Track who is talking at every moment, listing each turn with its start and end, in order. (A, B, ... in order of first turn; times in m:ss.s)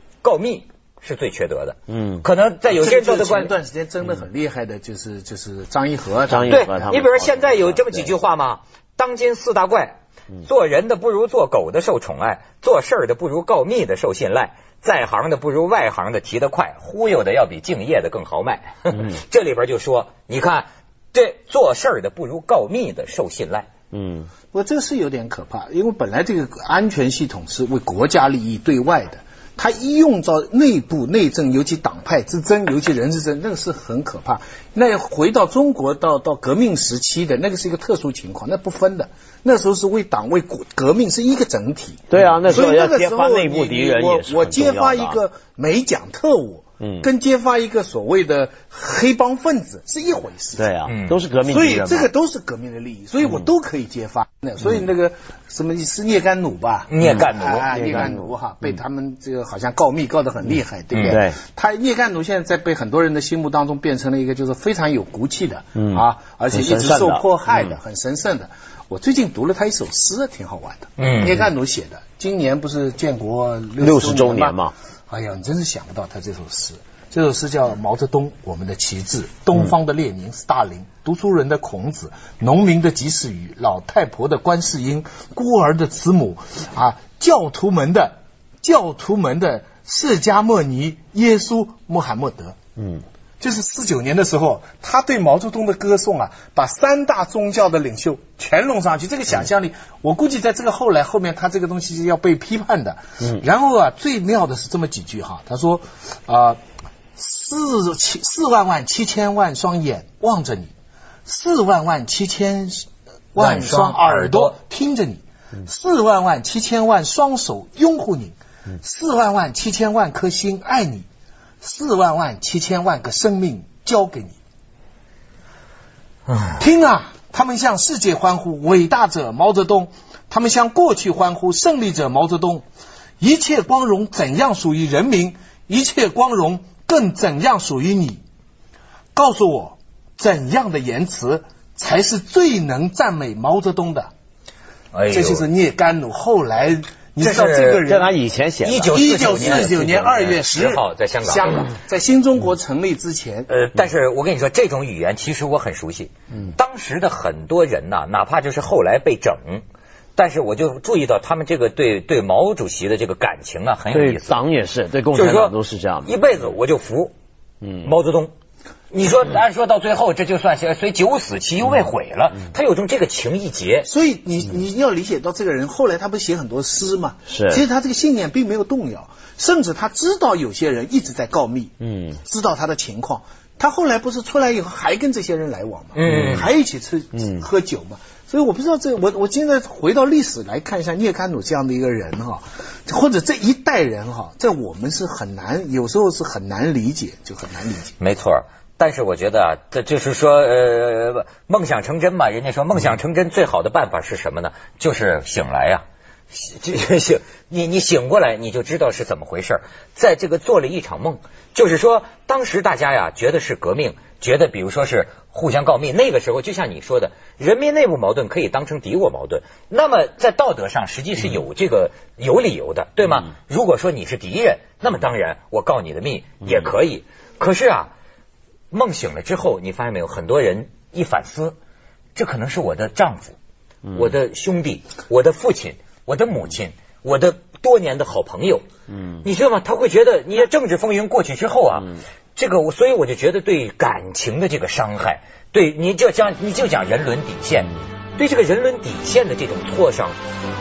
0:00.2-0:03.5 A
0:01.9-0:02.2 B
0:02.7-0:07.0 C
0:06.3-0:08.1 B
0:06.5-0:23.7 A
0:23.9-0:24.3 B
0:24.5-0:50.8 C
0:42.1-0:45.2 B
0:46.8-0:47.1 B
0:50.6-0:52.1 B
0:50.9-0:51.2 A
0:51.4-1:32.6 C
0:53.2-0:53.5 B
0:56.9-0:57.7 A
0:57.0-0:58.8 B
1:00.9-1:01.2 A
1:01.1-1:01.4 B
1:05.8-1:07.8 B
1:11.0-1:11.5 A
1:13.8-1:14.7 B
1:32.8-1:33.0 B
1:33.4-1:46.6 C
1:47.2-1:50.7 C
1:51.3-2:01.1 C
1:53.4-1:54.6 A
2:01.6-2:04.4 C
2:06.3-2:06.6 A
2:06.6-2:12.6 C
2:13.2-2:18.2 C
2:19.2-2:24.1 C
2:24.9-2:25.5 A
2:25.1-2:28.2 C
2:27.2-2:27.8 A
2:27.9-2:30.3 B
2:28.6-2:31.7 A
2:28.9-2:33.5 C
2:33.5-2:39.6 A
2:40.2-2:44.4 A
2:43.9-2:46.2 B
2:45.1-2:47.1 A
2:47.6-2:47.9 B
2:47.8-2:48.3 A
2:48.9-2:53.9 A
2:53.8-3:17.9 C
2:57.3-2:57.6 B
3:01.8-3:02.2 B
3:05.9-3:06.5 A
3:06.1-3:06.5 B
3:07.1-3:07.5 B
3:18.0-3:47.9 A
3:48.7-3:51.6 A
3:52.2-3:53.4 A
3:53.9-3:54.1 B
3:53.9-3:58.6 A
3:58.9-3:59.2 B
3:59.2-4:10.2 A